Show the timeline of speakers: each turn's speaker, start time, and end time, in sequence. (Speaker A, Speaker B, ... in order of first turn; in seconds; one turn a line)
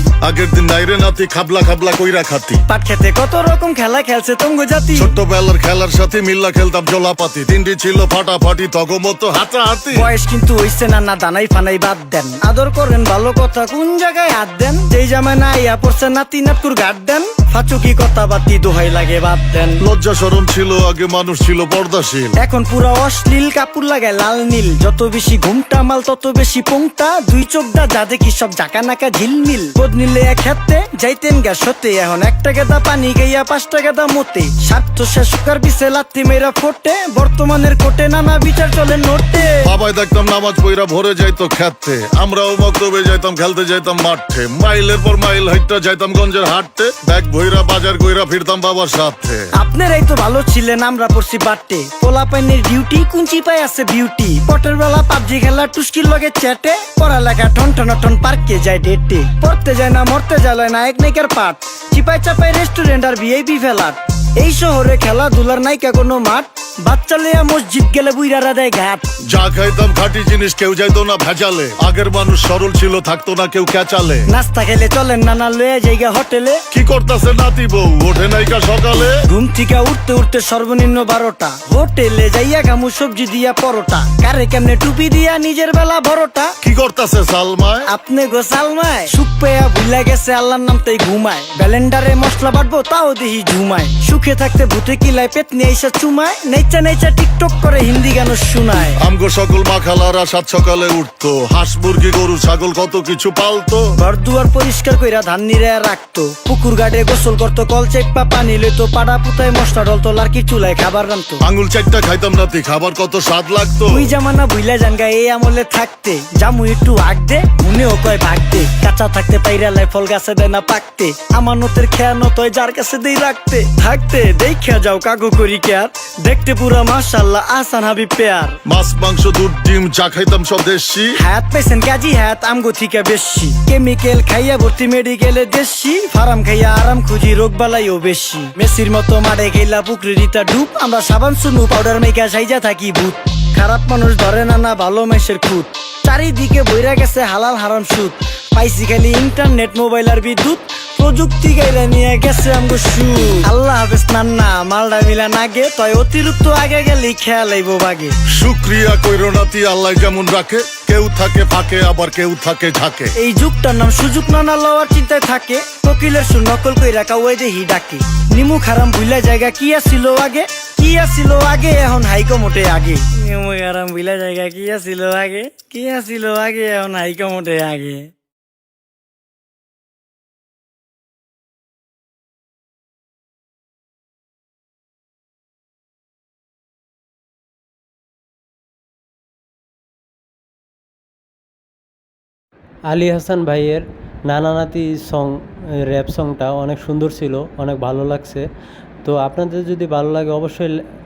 Speaker A: 0.2-2.6
Speaker B: 2.7-5.2
Speaker A: 5.0-10.1
Speaker B: 9.9-19.8
Speaker A: 19.8-22.4
Speaker B: 22.4-39.6
Speaker A: 39.6-49.5
Speaker B: 49.5-69.1
Speaker A: 69.2-74.3
Speaker B: 74.3-76.6
Speaker A: 76.7-79.2
Speaker B: 79.2-86.5
Speaker A: 86.6-87.9
Speaker B: 87.9-99.0
Speaker A: 99.0-103.9
Speaker B: 104.0-111.4
Speaker A: 111.4-114.1
Speaker B: 113.9-128.6
Speaker A: 128.7-131.2
Speaker B: 131.2-158.2
Speaker A: 158.3-163.1
Speaker B: 163.2-178.1
Speaker C: 192.9-198.4
Speaker C: 199.0-200.8